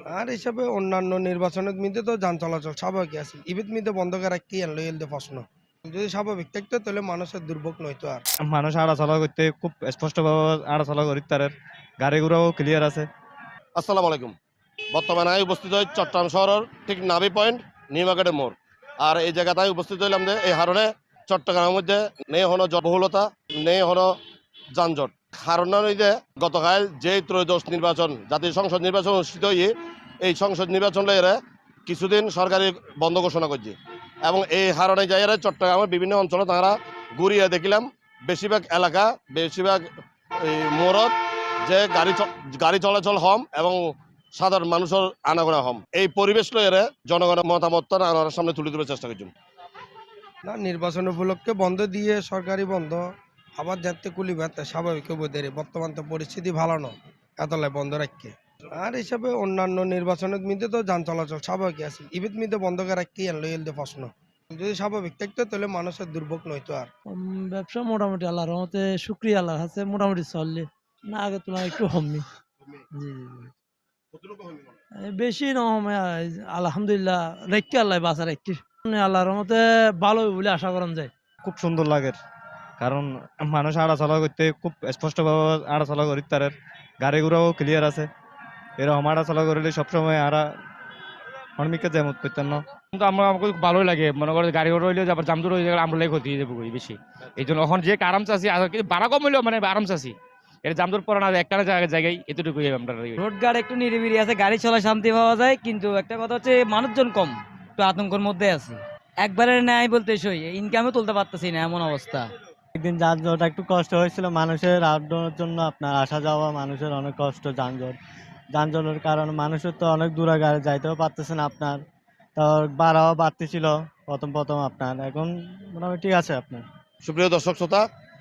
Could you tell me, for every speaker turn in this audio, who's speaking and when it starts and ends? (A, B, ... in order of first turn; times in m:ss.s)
0:00.1-0:08.2 A
0:08.5-0:13.1 B
0:13.8-0:14.4 C
0:15.0-0:24.2 C
0:24.8-0:29.7 C
0:30.2-0:39.9 C
0:40.4-0:41.2 C
0:41.7-0:43.8 C
0:44.4-0:49.3 C
0:50.5-0:53.0 A
0:53.6-1:06.9 A
1:07.2-1:12.3 D
1:12.9-1:13.5 D
1:15.1-1:21.1 D
1:21.4-1:22.2 B
1:22.8-1:28.1 B
1:28.8-1:30.4 B
1:31.6-1:32.6 B
1:32.9-1:43.2 E
1:43.2-1:52.2 F
1:52.8-1:58.0 G
1:58.6-2:01.8 G
2:02.4-2:06.6 G
2:07.0-2:07.8 C